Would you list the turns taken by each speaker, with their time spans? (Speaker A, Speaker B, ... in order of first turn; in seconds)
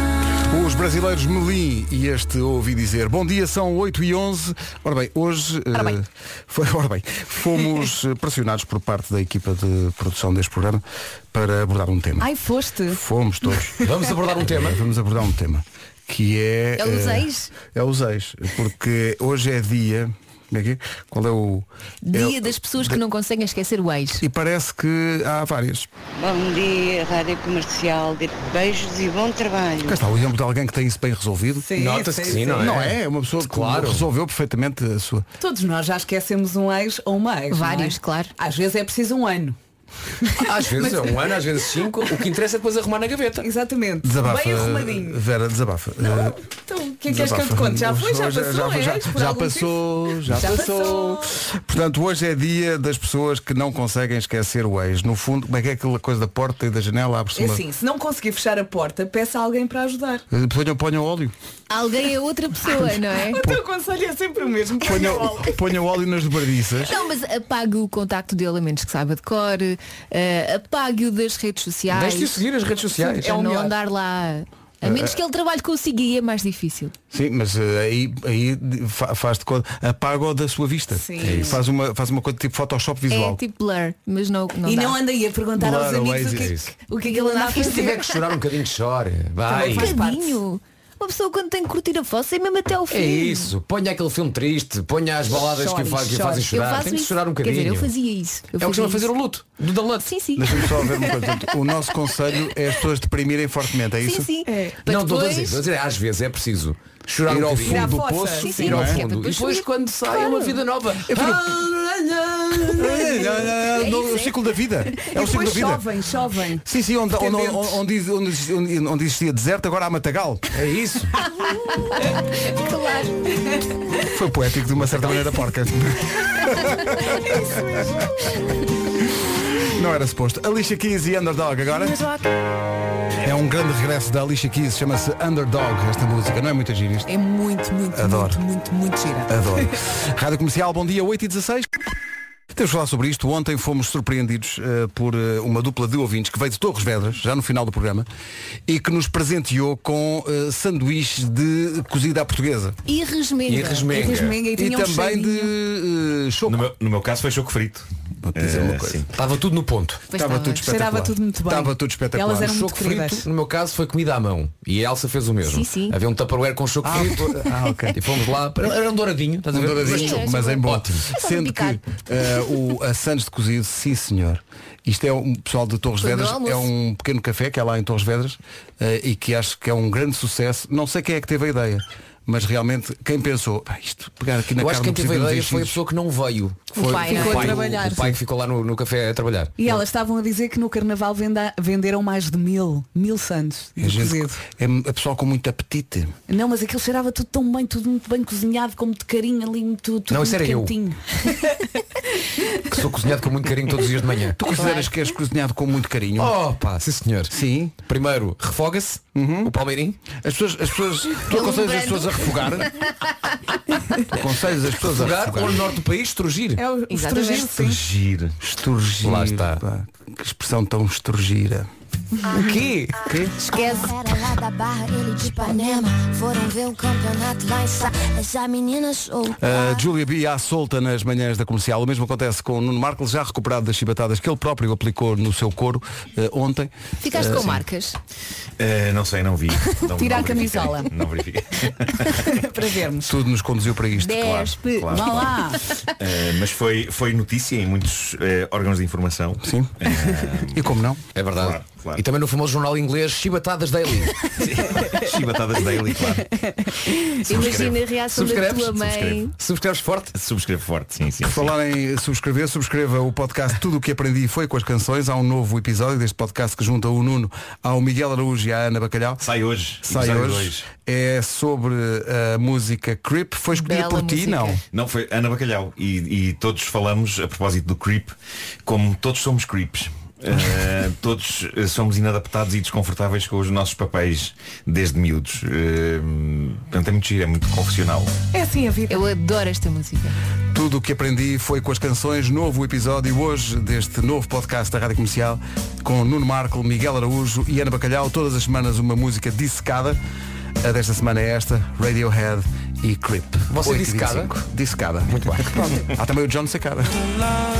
Speaker A: 0.5-10.8, 11.3-12.3, 12.9-13.8, 14.4-23.0, 24.2-25.9, 29.8-31.7, 32.6-35.2, 44.0-46.4, 47.1-57.6, 60.3-61.3, 64.8-66.9, 74.8-75.1, 77.1-83.4, 85.6-86.5, 100.3-104.3, 107.3-109.0, 111.1-111.4, 112.7-115.8, 116.6-120.5, 124.0-127.4, 129.6-132.0, 133.2-137.1, 137.9-138.4, 139.3-141.7, 142.5-148.1, 148.7-152.8, 154.5-156.7, 158.2-159.0, 160.1-162.6, 166.8-168.0, 169.5-185.8, 186.8-187.4, 193.8-196.1, 204.3-206.4, 207.3-207.8, 209.1-209.5, 210.1-212.7, 214.1-215.6, 218.4-221.7, 223.0-223.3, 229.4-237.6, 243.0-244.2, 249.4-251.0, 261.2-269.3, 269.8-274.6, 290.5-300.0, 300.6-307.0
Speaker B: 12.2-13.0, 31.6-32.8, 35.4-39.6, 40.2-42.1, 43.4-45.2, 46.0-51.3, 57.3-60.2, 63.3-65.5, 73.2-73.7, 80.9-81.6, 84.7-88.0, 89.5-90.4, 95.3-96.5, 107.6-108.9, 115.1-117.8, 127.3-127.8, 137.1-139.6, 153.9-155.5, 160.6-163.3, 186.9-188.2, 189.6-194.4, 196.3-201.6, 216.6-217.8, 240.0-240.9, 242.2-243.1, 244.9-245.6, 256.2-256.9, 288.3-289.0
Speaker C: 13.8-14.8, 31.7-34.0, 40.4-43.5, 71.9-73.5, 86.3-86.7, 87.6-90.0, 92.9-97.9, 98.5-100.1, 104.8-107.9, 108.5-113.0, 120.5-121.2, 124.7-125.2, 153.4-154.4, 159.1-160.0, 162.4-167.4, 167.9-171.0, 184.6-189.6, 200.1-200.8, 202.7-204.6, 206.2-207.3, 207.8-210.0, 214.8-216.6, 219.0-219.6, 222.3-223.0, 251.1-254.2, 257.3-260.1, 303.5-304.4, 305.1-305.8
Speaker D: 16.8-17.5, 22.0-24.2, 37.5-38.3, 61.7-63.4, 66.8-72.4, 72.9-76.9, 83.1-85.0, 87.1-88.1, 89.6-93.5, 96.5-99.1, 100.0-101.4, 104.0-105.6, 108.4-110.5, 113.7-115.1, 122.5-123.2, 152.8-154.1, 160.1-160.6, 165.4-166.0, 169.8-171.8, 176.0-176.7, 186.8-187.6, 211.2-212.9, 216.9-217.6, 223.4-223.9, 225.4-225.9, 237.0-238.0, 243.9-245.8, 257.2-259.3, 273.6-274.6, 288.9-290.2
Speaker E: 26.2-30.0
Speaker F: 156.4-159.1, 217.4-218.3, 238.6-242.2, 244.1-250.7, 251.3-252.0, 254.4-256.3, 257.3-257.8, 258.8-259.2, 260.1-261.5, 269.2-270.7, 274.7-288.1
Speaker G: 223.5-229.8